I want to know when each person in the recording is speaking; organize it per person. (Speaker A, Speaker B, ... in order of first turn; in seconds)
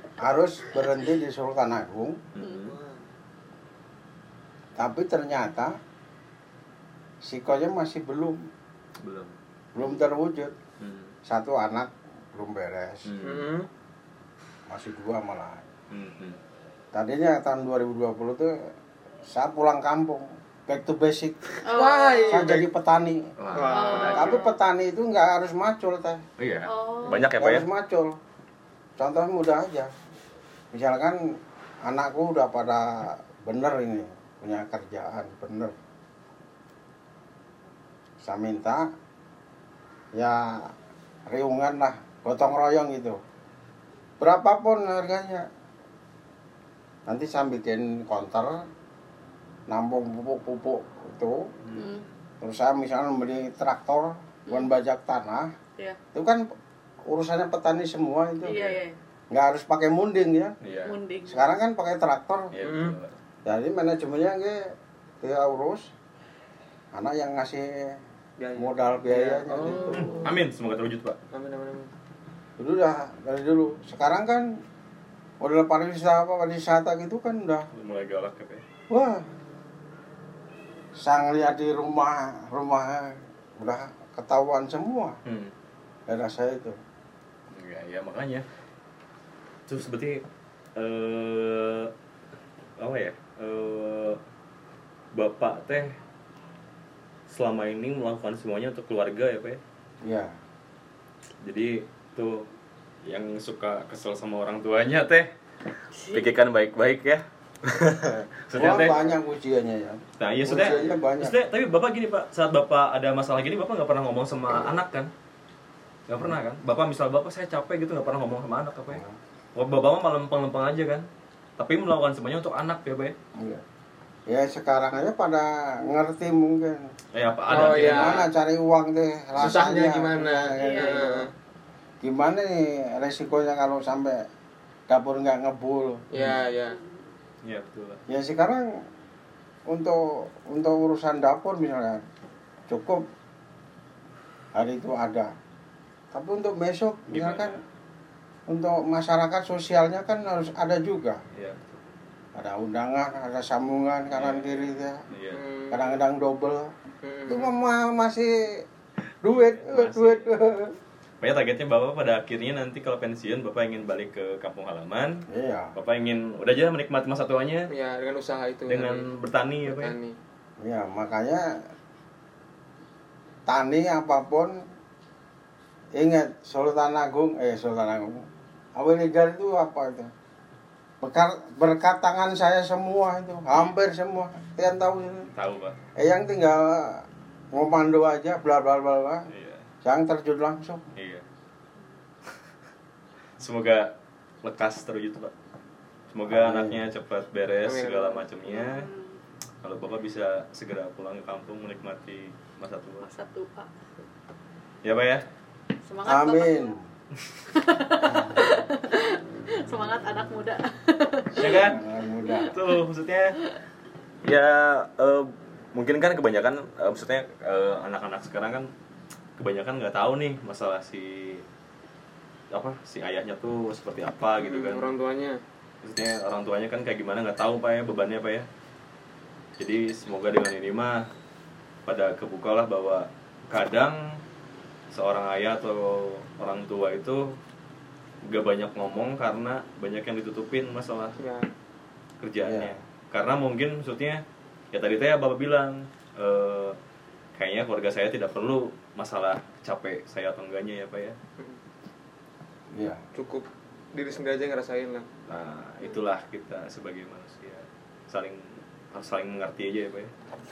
Speaker A: 0.2-2.2, 4.8-5.8, 7.2-8.4, 9.7-10.6, 11.3-13.1, 14.7-15.7, 16.9-18.5, 19.3-21.6, 22.3-23.3, 24.1-26.2, 27.3-28.2, 29.0-29.9, 30.7-31.2, 31.8-35.7, 38.2-38.9, 40.1-40.7, 41.3-43.2, 44.2-45.5, 47.1-48.7, 49.7-51.5, 52.4-55.5, 56.1-56.5, 57.1-58.6, 59.3-60.6, 61.3-62.5, 63.5-64.7, 65.2-65.9, 66.9-68.0, 68.6-70.2, 72.6-74.5, 75.4-77.7, 78.9-79.3, 81.0-85.2, 86.1-86.8, 100.0-100.3, 108.5-111.4, 123.4-123.6, 124.3-126.9, 127.5-131.3, 132.0-134.3, 134.9-136.0, 138.1-138.7, 139.7-142.1, 142.7-143.0, 144.5-145.3, 146.1-147.6, 148.5-151.2, 152.3-155.0, 155.7-156.7, 157.3-158.7, 159.2-160.8, 165.3-165.7, 170.6-171.5, 173.5-174.6, 175.9-180.1, 181.0-185.3, 186.0-189.3, 189.8-190.9, 196.3-196.8, 206.0-206.8, 208.0-208.6, 211.4-212.6, 242.4-242.8, 252.7-253.0
Speaker B: 2.3-2.8, 9.0-9.4, 10.8-11.1, 13.1-13.5, 15.9-16.4, 23.4-24.5, 26.4-27.7, 51.6-52.0, 58.5-58.8, 60.6-61.0, 62.5-63.1, 69.9-71.2, 77.7-78.6, 85.3-85.5, 87.5-88.5, 89.7-90.2, 90.8-91.9, 92.8-94.2, 95.1-96.0, 97.3-99.6, 101.4-102.5, 103.1-105.3, 106.1-109.1, 110.2-115.1, 116.1-119.0, 119.5-121.1, 121.6-123.2, 127.1-128.3, 137.4-138.0, 147.1-147.6, 151.3-151.8, 154.1-155.4, 159.3-160.3, 161.2-167.7, 168.7-170.0, 185.3-185.8, 189.3-189.7, 191.0-191.2, 193.4-195.3, 196.1-198.9, 199.6-203.1, 204.8-205.2, 211.4-211.8, 212.4-213.4, 214.2-218.7, 219.4-221.4, 222.5-224.9, 225.8-228.5, 229.6-231.1, 231.9-234.2, 234.9-237.4, 238.2-241.2, 242.2-246.8, 247.4-251.2, 255.3-260.1
Speaker C: 2.5-3.0, 13.2-13.7, 21.7-22.7, 23.5-24.3, 62.6-63.0, 68.4-70.2, 71.3-71.9, 127.5-128.3, 129.4-131.3, 136.1-136.8, 155.3-155.9, 157.0-157.5, 167.7-169.1, 169.7-170.2, 197.7-198.2, 224.4-225.4, 241.2-241.5, 253.2-255.1
Speaker D: 21.6-22.4, 23.7-24.5, 26.6-27.2, 51.7-52.1, 54.5-54.7, 58.4-59.0, 60.8-61.5, 106.0-106.3, 130.6-131.0, 198.5-199.2, 203.0-203.7, 205.9-206.7, 207.5-211.7